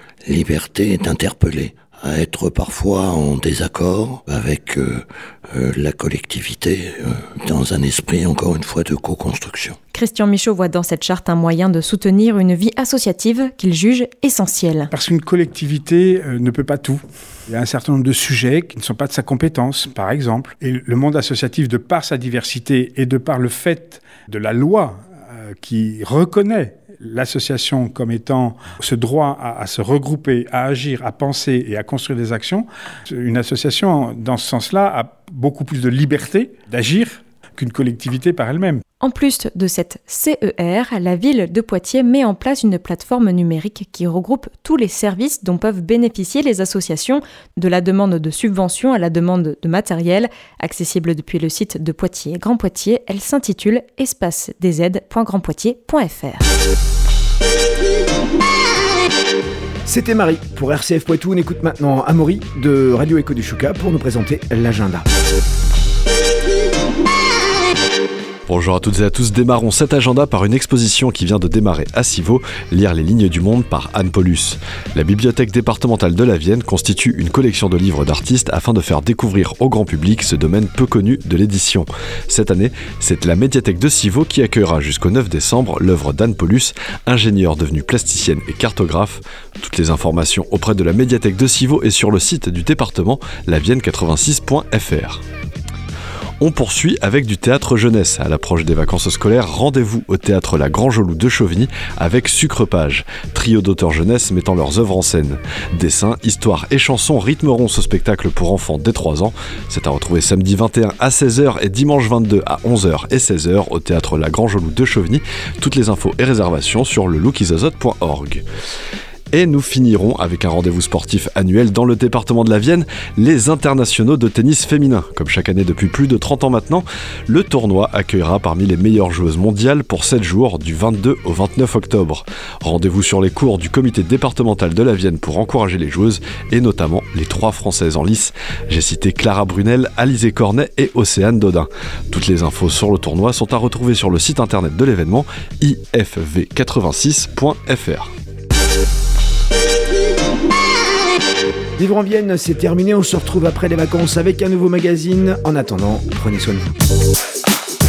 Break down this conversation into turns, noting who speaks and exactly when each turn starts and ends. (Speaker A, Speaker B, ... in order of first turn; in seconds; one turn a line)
Speaker A: 0.2-9.8
Speaker B: 9.9-14.9
Speaker C: 14.9-25.0
Speaker C: 25.6-38.8
Speaker B: 39.0-56.4
Speaker D: 59.9-65.0
Speaker E: 68.5-95.2
Speaker E: 96.4-118.4
Speaker E: 119.3-148.1
Speaker D: 151.8-156.7